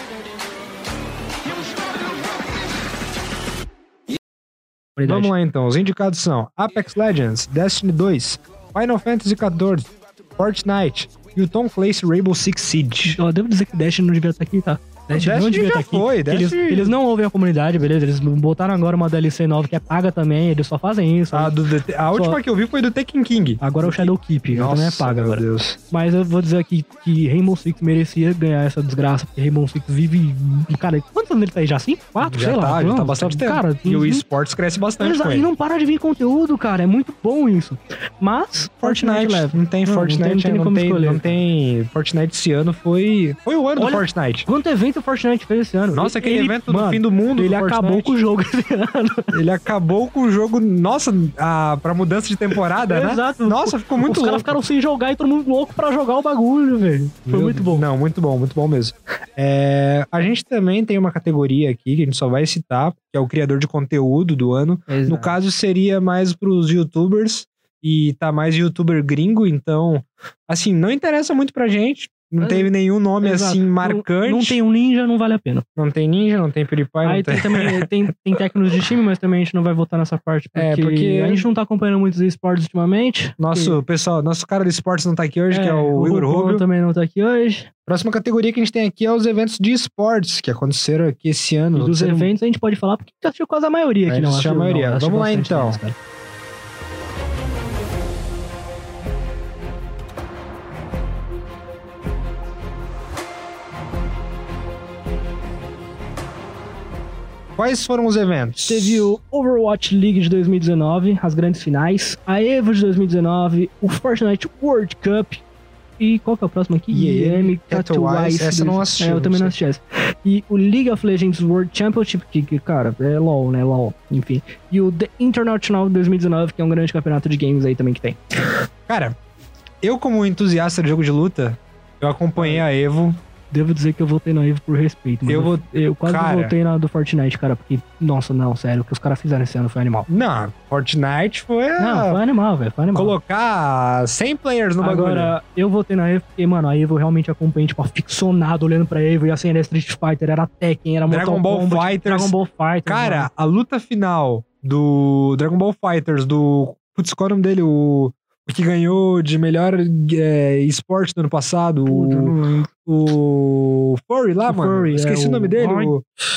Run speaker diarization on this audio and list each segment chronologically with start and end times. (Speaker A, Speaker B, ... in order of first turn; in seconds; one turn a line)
Speaker A: 5.0-5.3
Speaker B: 5.0-13.2
Speaker A: 13.1-21.6
Speaker B: 15.1-16.9
Speaker B: 21.3-25.8
Speaker A: 22.1-22.4
Speaker A: 23.6-34.2
Speaker B: 32.2-35.5
Speaker A: 35.0-41.3
Speaker B: 38.8-44.5
Speaker A: 43.8-49.4
Speaker B: 45.9-48.2
Speaker B: 49.3-54.6
Speaker A: 52.9-57.9
Speaker B: 57.3-74.6
Speaker A: 64.9-65.3
Speaker A: 72.4-75.6
Speaker B: 75.8-77.9
Speaker A: 77.0-83.8
Speaker B: 80.5-81.5
Speaker B: 83.4-86.6
Speaker A: 85.5-87.7
Speaker B: 87.8-92.3
Speaker A: 91.7-96.0
Speaker B: 94.0-95.8
Speaker B: 107.6-109.0
Speaker A: 108.6-115.4
Speaker A: 116.0-128.2
Speaker B: 116.9-119.5
Speaker B: 128.9-129.2
Speaker B: 129.8-133.2
Speaker A: 132.4-132.6
Speaker A: 133.5-140.1
Speaker B: 135.2-136.5
Speaker B: 140.1-142.2
Speaker A: 141.8-143.1
Speaker B: 142.9-145.3
Speaker A: 144.8-153.3
Speaker B: 151.1-166.0
Speaker A: 161.9-162.7
Speaker A: 164.5-165.9